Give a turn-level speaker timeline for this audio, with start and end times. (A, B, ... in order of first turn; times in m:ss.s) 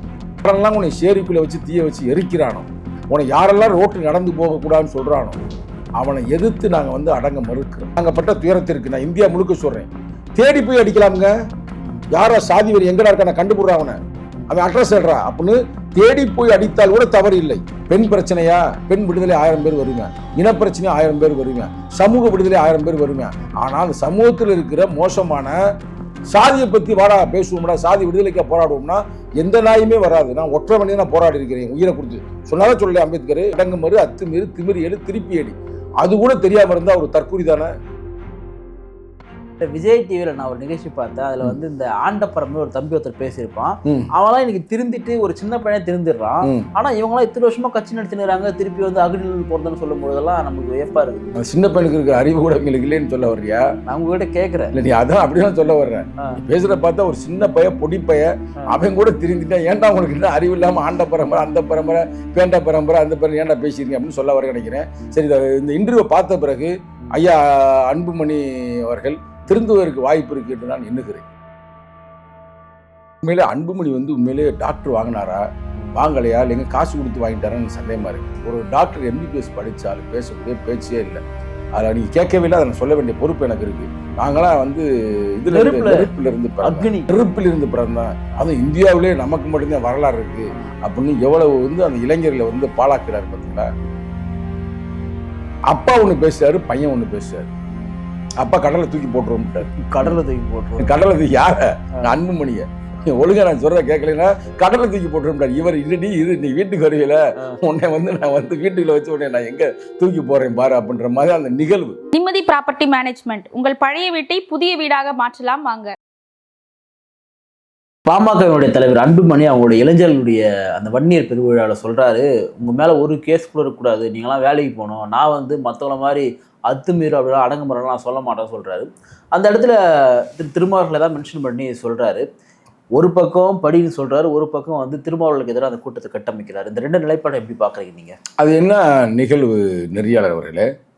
0:00.4-0:05.4 A
0:06.0-0:11.3 A
0:12.1-0:14.0 A
0:14.5-0:25.6 A
0:26.3-0:37.7 A
0:39.6-0:51.3 B
0:51.4-0:53.6 A
0:53.9-0:54.7 B
0:54.7-1:11.2 A
1:13.2-1:15.4 A
1:16.0-1:21.2 A
1:21.8-1:33.7 A
1:25.5-1:27.1 B
1:35.7-1:37.5 A
1:38.4-1:40.1 A
1:39.6-1:41.0 B
1:40.8-1:52.0 A
1:52.1-1:55.9 C
1:58.1-2:12.2 B
2:13.0-2:18.2 B
2:18.4-2:20.7 A